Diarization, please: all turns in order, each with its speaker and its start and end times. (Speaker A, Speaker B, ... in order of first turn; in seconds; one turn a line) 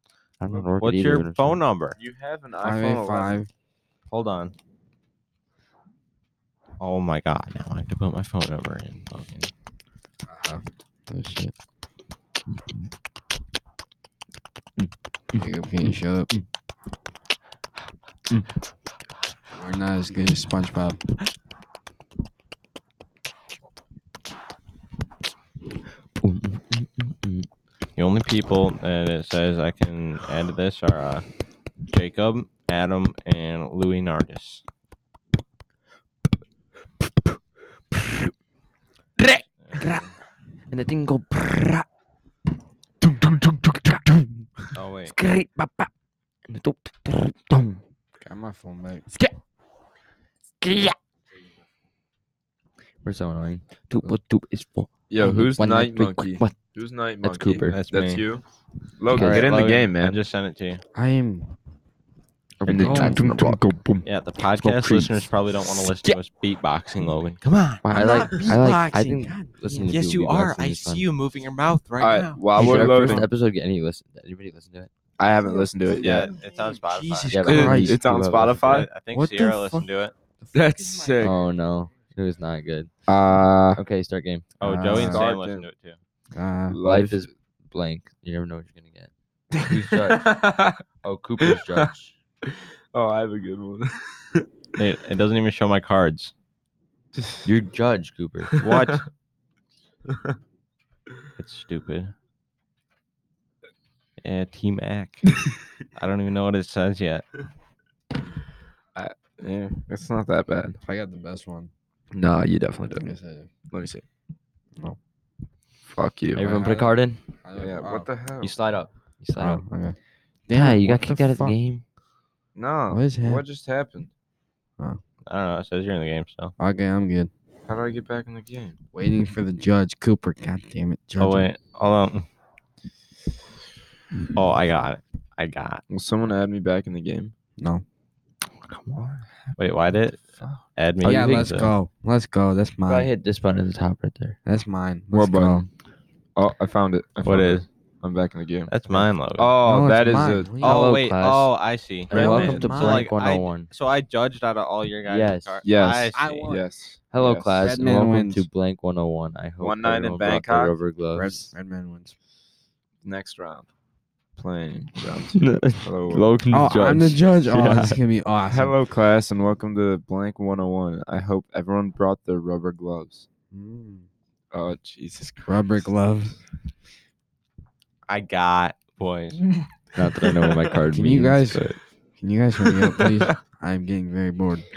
Speaker A: 0.4-1.6
Speaker B: 0.5-0.8
Speaker C: 0.8-2.0
Speaker B: 1.9-3.4
Speaker D: 2.6-3.5
Speaker C: 4.1-4.5
Speaker C: 6.8-9.5
Speaker D: 10.3-11.5
Speaker D: 15.3-16.3
Speaker D: 19.5-21.0
Speaker A: 26.2-27.5
Speaker C: 28.0-31.2
Speaker C: 31.8-34.6
Speaker A: 39.2-40.0
Speaker C: 39.6-40.1
Speaker A: 40.7-41.8
Speaker A: 43.0-44.1
Speaker C: 44.7-45.1
Speaker A: 45.1-45.9
Speaker A: 46.5-47.8
Speaker D: 48.2-49.1
Speaker A: 50.6-50.9
Speaker A: 53.0-56.6
Speaker B: 55.1-58.4
Speaker A: 57.2-57.8
Speaker C: 57.7-58.2
Speaker B: 59.0-60.2
Speaker A: 59.1-59.5
Speaker C: 59.1-60.8
Speaker D: 60.9-61.5
Speaker A: 62.6-63.3
Speaker B: 62.6-64.0
Speaker D: 62.7-63.6
Speaker C: 64.0-68.3
Speaker A: 64.6-65.2
Speaker A: 67.8-71.0
Speaker D: 67.9-70.0
Speaker C: 69.9-73.0
Speaker B: 72.0-73.3
Speaker A: 72.5-74.9
Speaker B: 75.2-76.3
Speaker D: 75.4-78.0
Speaker C: 75.9-77.7
Speaker A: 77.3-78.8
Speaker B: 77.4-78.9
Speaker C: 78.5-80.1
Speaker D: 79.1-79.9
Speaker D: 80.4-81.4
Speaker B: 80.5-81.4
Speaker A: 81.2-82.9
Speaker B: 83.1-83.8
Speaker A: 83.7-84.5
Speaker C: 84.6-86.0
Speaker D: 84.6-85.2
Speaker B: 84.9-85.7
Speaker D: 86.3-86.8
Speaker B: 86.7-87.3
Speaker A: 86.8-89.1
Speaker B: 89.6-90.8
Speaker A: 89.6-92.1
Speaker B: 91.4-91.9
Speaker B: 92.4-94.5
Speaker C: 94.8-96.3
Speaker B: 97.1-97.5
Speaker A: 97.4-98.5
Speaker B: 98.5-98.9
Speaker C: 98.6-99.0
Speaker C: 101.4-102.1
Speaker C: 104.2-107.2
Speaker B: 108.9-110.8
Speaker D: 110.8-111.7
Speaker B: 112.1-113.0
Speaker D: 112.9-113.5
Speaker B: 113.7-114.0
Speaker B: 115.8-116.7
Speaker A: 116.3-117.2
Speaker D: 116.5-118.1
Speaker B: 117.6-118.5
Speaker A: 118.4-119.6
Speaker D: 119.3-120.0
Speaker D: 120.5-121.5
Speaker A: 120.5-121.8
Speaker B: 122.5-124.1
Speaker D: 122.9-123.4
Speaker C: 125.3-126.5
Speaker D: 126.6-127.3
Speaker B: 127.7-128.8
Speaker D: 128.9-131.5
Speaker C: 131.2-132.3
Speaker C: 134.3-135.8
Speaker B: 135.9-137.3
Speaker D: 137.6-137.8
Speaker A: 138.7-139.2
Speaker C: 139.6-141.7
Speaker B: 140.2-140.6
Speaker D: 141.0-143.1
Speaker A: 142.9-144.4
Speaker D: 144.4-145.7
Speaker B: 145.1-145.7
Speaker B: 146.3-150.5
Speaker C: 147.2-147.7
Speaker C: 148.7-149.5
Speaker D: 149.6-150.8
Speaker C: 150.6-156.6
Speaker A: 150.6-151.5
Speaker B: 152.1-152.7
Speaker A: 152.1-153.7
Speaker D: 152.1-153.0
Speaker A: 155.1-155.6
Speaker B: 155.6-157.6
Speaker D: 156.1-156.6
Speaker A: 157.1-161.5
Speaker D: 157.6-158.4
Speaker B: 159.6-160.8
Speaker D: 161.1-162.1
Speaker B: 163.0-163.7
Speaker B: 164.3-166.3
Speaker A: 165.3-168.0
Speaker D: 166.5-168.8
Speaker B: 168.5-173.2
Speaker D: 173.5-174.1
Speaker B: 174.5-175.8
Speaker D: 175.4-176.4
Speaker C: 178.1-179.4
Speaker A: 179.9-181.8
Speaker D: 180.9-181.7
Speaker D: 182.2-184.7
Speaker B: 182.7-183.3